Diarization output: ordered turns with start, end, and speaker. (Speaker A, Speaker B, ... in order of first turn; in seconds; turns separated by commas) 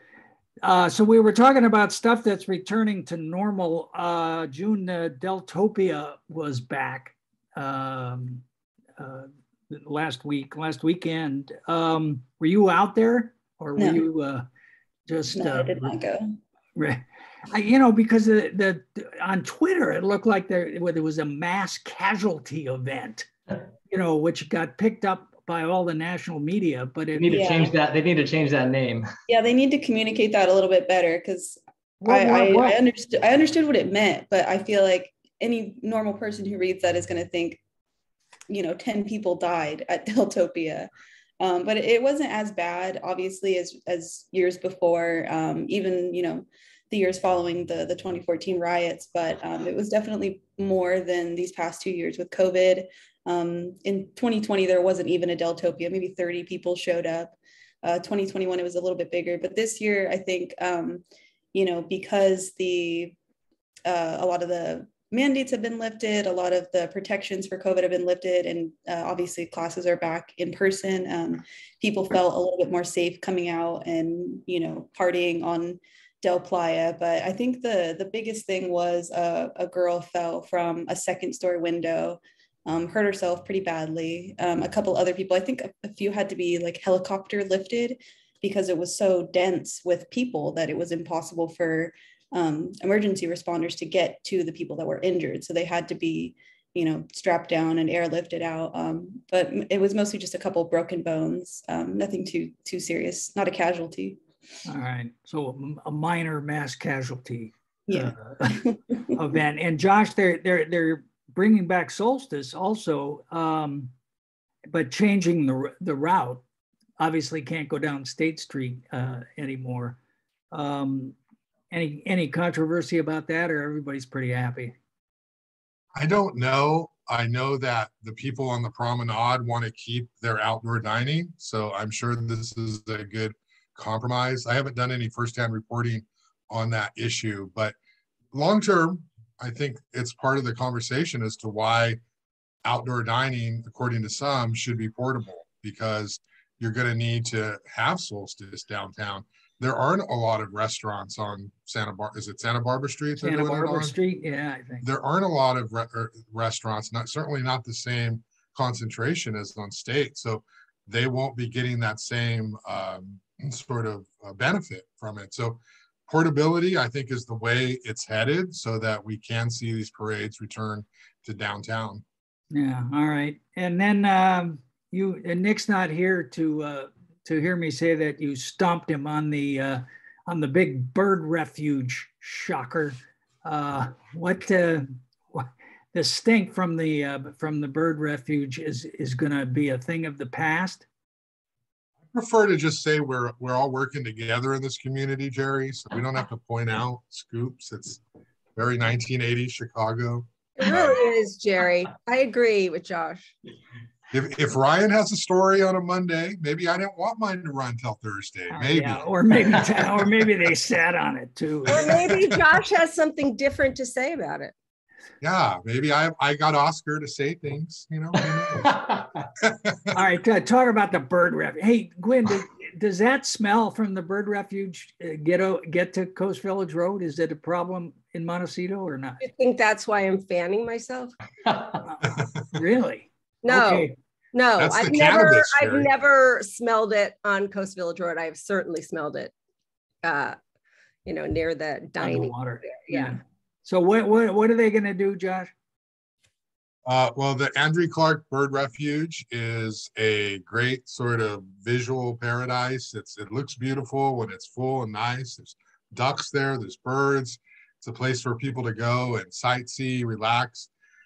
Speaker A: 0.6-8.4, Speaker A: 9.0-14.4, Speaker A: 15.1-16.0, Speaker B: 15.3-16.3, Speaker A: 16.8-23.3, Speaker A: 23.9-27.6, Speaker C: 27.2-29.1, Speaker B: 27.3-27.7, Speaker B: 29.3-37.6, Speaker A: 32.0-32.8, Speaker B: 38.5-40.9, Speaker B: 41.4-61.0, Speaker B: 61.5-63.1, Speaker B: 63.9-104.2, Speaker A: 104.6-108.6, Speaker B: 107.9-109.0, Speaker A: 109.1-113.9, Speaker A: 114.7-116.4, Speaker A: 117.0-120.0, Speaker A: 120.5-121.2, Speaker A: 121.7-124.8, Speaker D: 125.9-137.8, Speaker D: 138.3-142.0, Speaker D: 142.6-154.0, Speaker A: 153.2-154.9, Speaker D: 154.8-172.0, Speaker A: 172.5-190.9, Speaker D: 192.1-198.0, Speaker D: 198.6-201.1, Speaker E: 200.6-203.3, Speaker D: 204.1-209.1, Speaker A: 208.5-212.4, Speaker E: 211.7-214.5, Speaker D: 215.2-218.7, Speaker C: 218.2-219.3, Speaker D: 219.4-220.0, Speaker A: 219.9-229.2, Speaker E: 229.2-231.2, Speaker C: 231.4-231.8, Speaker A: 231.9-233.9, Speaker E: 233.4-239.3, Speaker D: 234.6-235.9, Speaker E: 240.0-240.4, Speaker E: 241.1-243.2, Speaker A: 242.0-245.5, Speaker D: 246.9-260.7